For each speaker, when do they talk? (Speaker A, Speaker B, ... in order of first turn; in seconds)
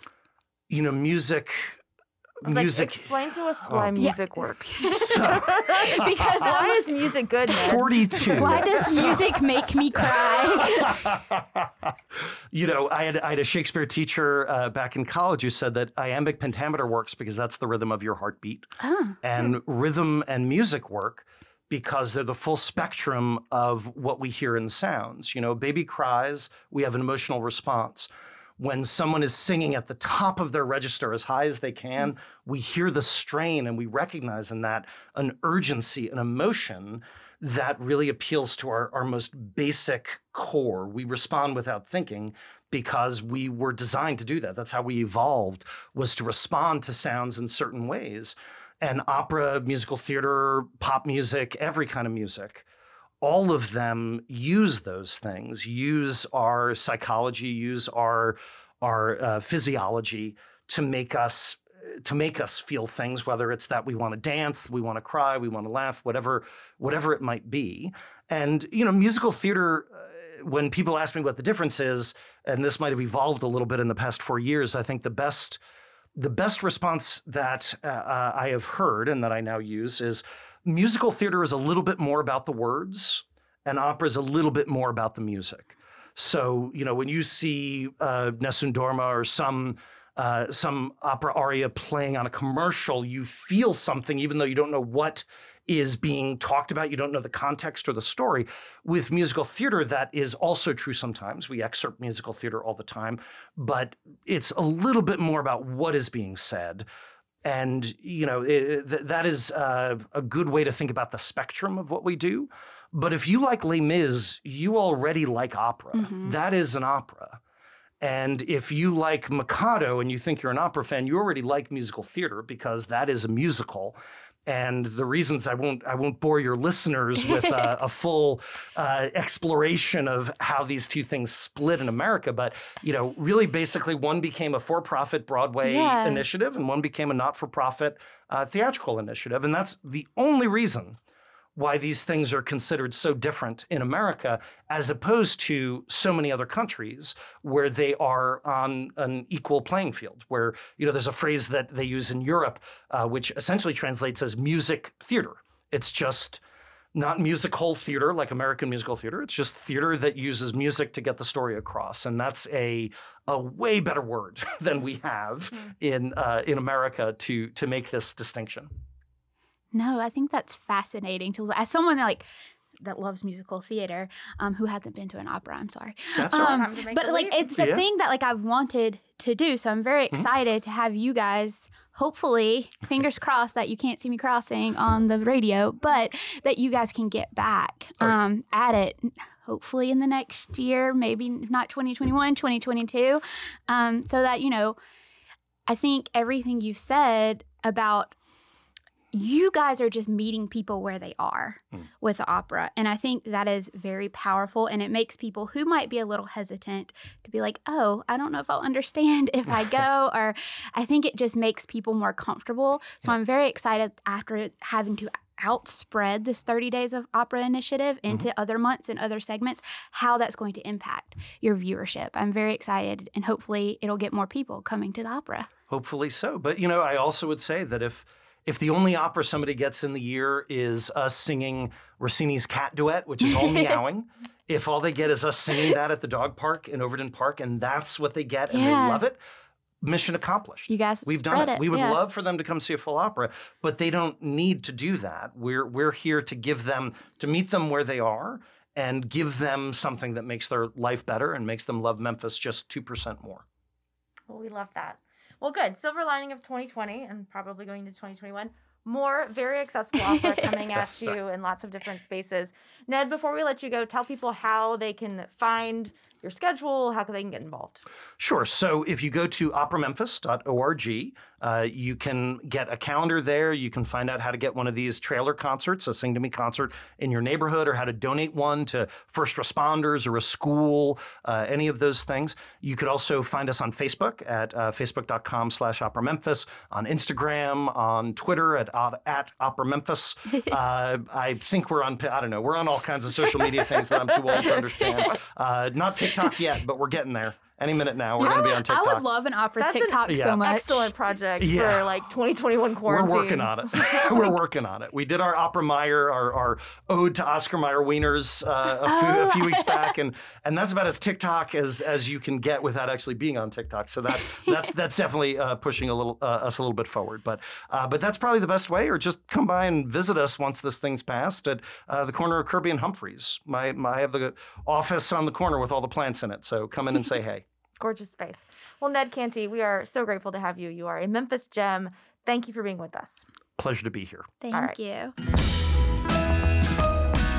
Speaker A: 0.7-1.8, 2.4-3.1, 3.6-4.0, 4.9-6.6, 7.5-9.4, 10.0-52.6, 53.2-75.6, 76.2-106.9, 107.4-117.4, 118.0-141.0, 141.6-156.4, 156.9-168.7, 176.2-176.7, 177.5-177.8, 225.7-239.2, 239.8-253.4, 268.2-299.1, 300.1-300.4, 301.4-301.9, 302.9-327.4, 333.6-334.3
Speaker B: 2.4-9.4, 176.2-177.6, 254.3-267.8, 299.6-304.2, 327.8-333.2
Speaker C: 4.0-6.9, 7.5-11.0, 18.8-19.2, 115.9-116.4, 127.3-127.5, 135.6-136.3, 169.7-172.3, 172.8-194.8, 195.7-198.2, 199.1-225.5, 233.2-233.8, 238.5-239.0, 240.7-242.0, 294.4-295.1, 298.2-300.9, 308.9-309.9, 334.4-335.1